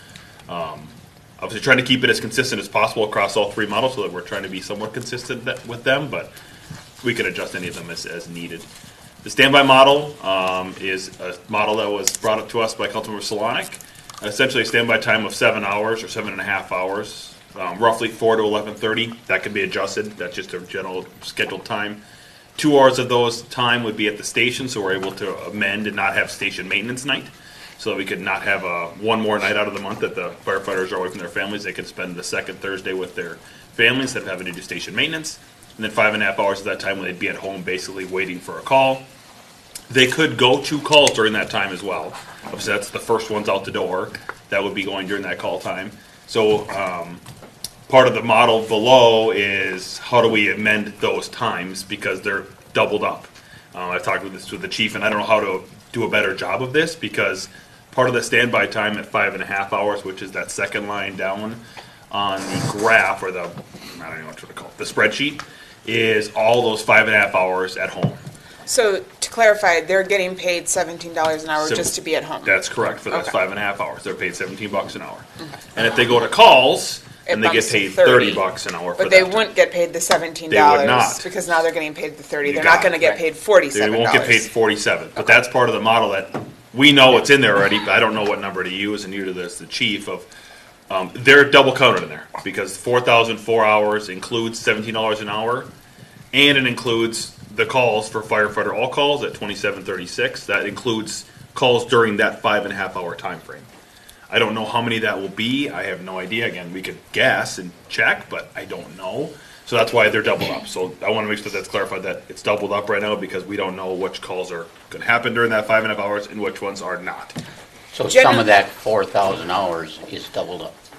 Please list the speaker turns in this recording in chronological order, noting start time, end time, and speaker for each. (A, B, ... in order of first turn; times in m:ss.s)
0:00.5-0:06.3 A
0:07.0-0:08.7 A
0:09.2-0:22.0 A
0:22.6-0:39.0 A
0:39.9-0:47.2 A
0:47.9-1:08.2 A
1:08.7-1:13.3 B
1:11.6-1:11.9 A
1:12.4-1:19.5 A
1:17.3-1:18.4 B
1:19.0-1:24.5 B
1:20.5-1:21.3 A
1:22.4-1:30.3 A
1:30.9-1:35.7 A
1:36.3-1:43.7 A
1:44.3-1:57.4 A
1:57.9-2:00.8 C
1:58.0-1:58.5 B